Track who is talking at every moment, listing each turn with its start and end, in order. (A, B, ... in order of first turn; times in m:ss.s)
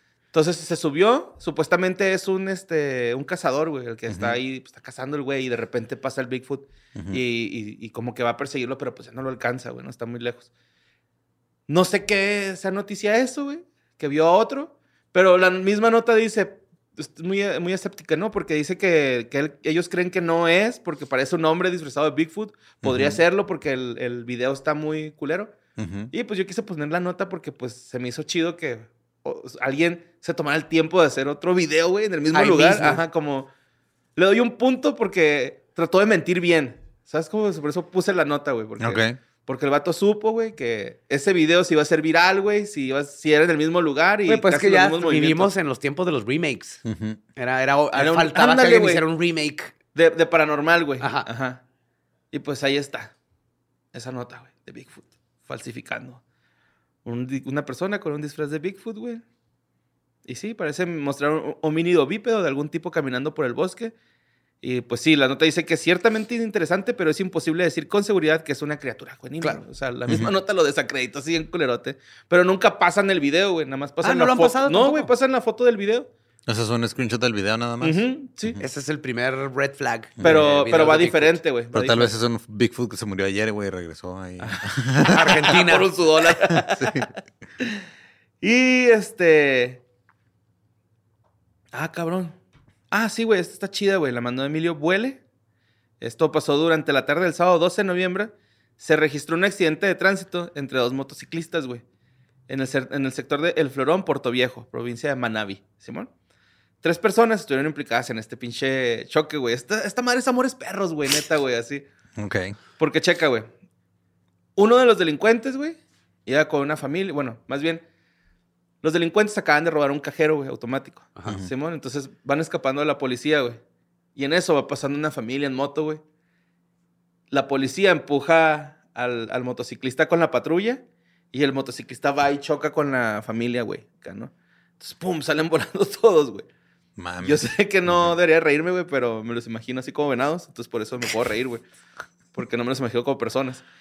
0:00.3-0:10.5 A
0:04.1-0:04.4 B
0:11.7-0:25.6 A
0:22.8-0:23.2 B
0:25.8-0:26.1 B
0:26.1-0:33.5 A
0:32.3-0:33.0 C
0:34.2-0:45.5 A
0:38.8-0:39.2 B
0:44.3-0:46.8 C
0:46.9-0:47.2 B
0:47.4-0:49.8 C
0:47.9-0:49.0 A
0:50.0-0:51.6 A
0:51.0-0:51.3 C
0:52.3-0:53.1 A
0:53.9-0:56.2 A
0:57.0-0:59.2 A
1:00.3-1:03.9 A
1:04.6-1:16.1 A
1:14.0-1:15.1 C
1:16.5-1:18.6 B
1:17.8-1:18.6 A
1:18.6-1:21.4 C
1:20.2-1:20.5 B
1:20.2-1:22.1 A
1:21.7-1:25.3 B
1:25.0-1:25.9 C
1:25.2-1:27.0 A
1:26.5-1:27.1 B
1:28.4-1:29.8 A
1:31.7-1:32.4 A
1:32.9-1:35.2 A
1:36.0-1:41.8 A
1:42.5-1:46.1 A
1:46.8-1:51.8 A
1:52.2-1:52.6 B
1:52.8-1:53.5 A
1:54.6-1:57.8 A
1:58.8-2:03.6 A
2:04.2-2:06.0 A
2:07.3-2:16.5 A
2:17.0-2:18.2 B
2:17.2-2:21.6 A
2:22.3-2:23.6 A